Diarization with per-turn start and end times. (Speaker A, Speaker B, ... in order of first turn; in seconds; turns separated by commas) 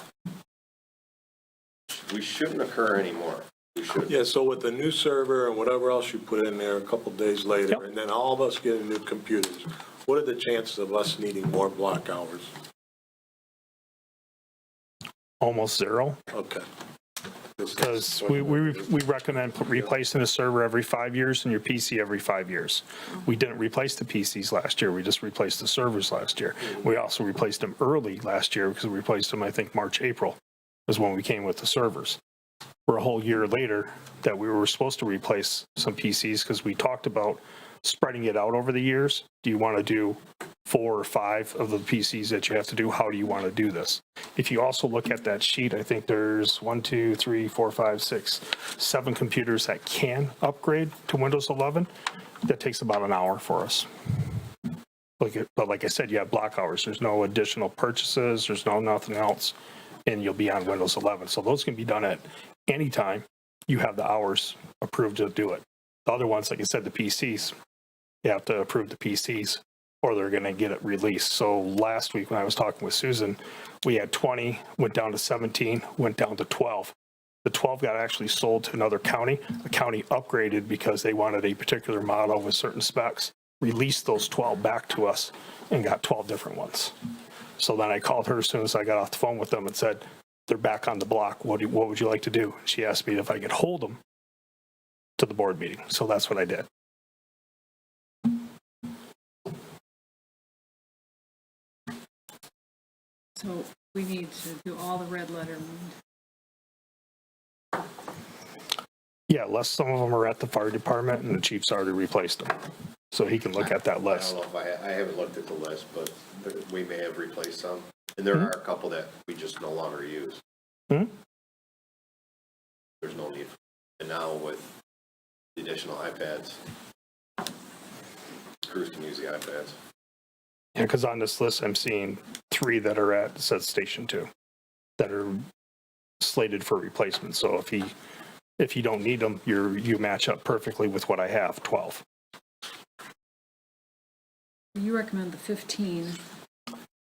Speaker A: 1.9-4.2, Speaker B: 4.1-12.5, Speaker C: 15.4-16.2, Speaker B: 16.3-16.6, Speaker B: 17.6-18.8, Speaker C: 17.8-32.2, Speaker C: 32.9-51.9, Speaker C: 52.4-53.9, Speaker C: 55.2-67.5, Speaker C: 68.2-86.9, Speaker C: 87.6-94.0, Speaker C: 95.2-96.7, Speaker D: 103.4-105.9, Speaker C: 109.3-112.6, Speaker C: 113.1-114.3, Speaker A: 113.6-120.4, Speaker A: 123.0-124.7, Speaker A: 125.5-126.6, Speaker A: 128.6-129.7, Speaker C: 130.8-134.3, Speaker C: 135.0-135.5, Speaker C: 136.2-137.9, Speaker C: 138.6-142.0, Speaker D: 144.7-146.2